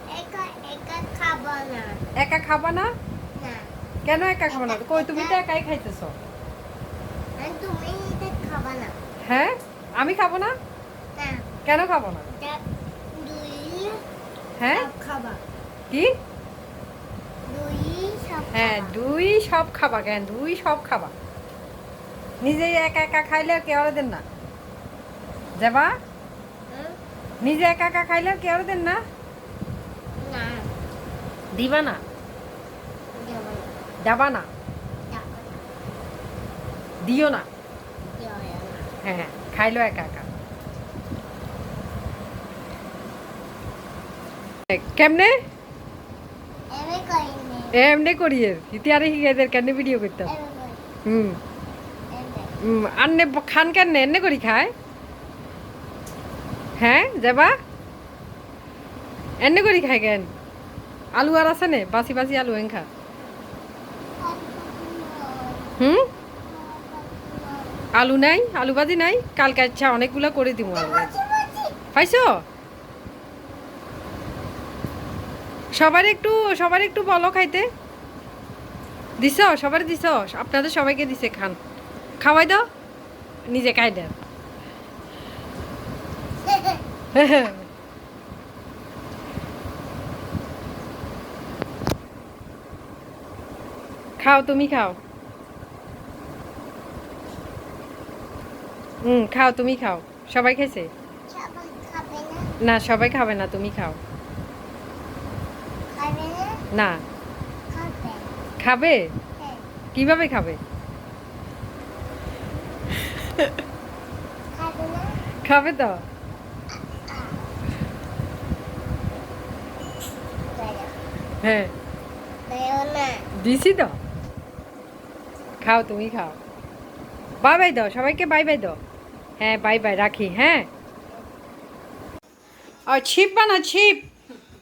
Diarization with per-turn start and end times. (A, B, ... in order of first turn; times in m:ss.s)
0:00.1-0:02.0 A
0:02.2-0:02.9 B
0:03.3-0:03.7 A
0:04.0-0:06.2 B
0:04.5-0:05.4 A
0:07.4-0:09.0 A
0:09.2-0:10.5 B
0:11.2-0:11.5 A
0:11.6-0:12.3 B
0:12.3-0:12.6 A
0:13.1-0:14.0 A
0:14.6-0:14.9 B
0:14.7-0:15.4 A
0:17.5-0:18.9 A
0:18.5-0:21.1 B
0:22.4-0:24.2 B
0:25.6-0:25.9 B
0:26.7-0:27.0 A
0:27.4-0:29.0 B
0:30.2-0:30.7 A
0:31.5-0:32.0 B
0:33.1-0:33.7 A
0:34.0-0:34.5 B
0:35.1-0:35.6 A
0:37.0-0:37.4 B
0:38.0-0:38.8 A
0:39.0-0:40.3 B
0:44.7-0:45.3 B
0:46.7-0:47.7 A
0:47.7-0:50.3 B
0:50.2-0:50.8 A
0:51.1-0:51.4 B
0:52.1-0:52.5 A
0:52.6-0:54.7 B
0:56.8-0:57.5 B
0:59.4-1:00.3 B
1:01.1-1:02.9 B
1:04.2-1:05.8 A
1:05.8-1:06.0 B
1:06.4-1:07.9 A
1:07.9-1:11.2 B
1:10.7-1:11.8 A
1:11.9-1:12.4 B
1:15.7-1:17.6 B
1:19.2-1:21.6 B
1:22.2-1:22.6 B
1:23.5-1:24.1 B
1:26.4-1:26.8 A
1:27.1-1:27.6 B
1:34.2-1:35.0 B
1:39.0-1:40.9 B
1:41.3-1:42.5 A
1:42.6-1:44.0 B
1:45.9-1:46.6 A
1:46.7-1:47.0 B
1:47.7-1:48.3 A
1:48.6-1:49.1 B
1:49.4-1:49.7 A
1:49.9-1:50.6 B
1:53.2-1:53.5 B
1:54.5-1:55.2 A
1:55.4-1:56.0 B
1:56.9-1:57.4 A
2:00.5-2:00.9 A
2:01.4-2:01.7 B
2:02.5-2:03.3 A
2:03.4-2:04.0 B
2:05.6-2:06.4 B
2:07.4-2:08.8 B
2:09.4-2:10.7 B
2:12.9-2:14.1 B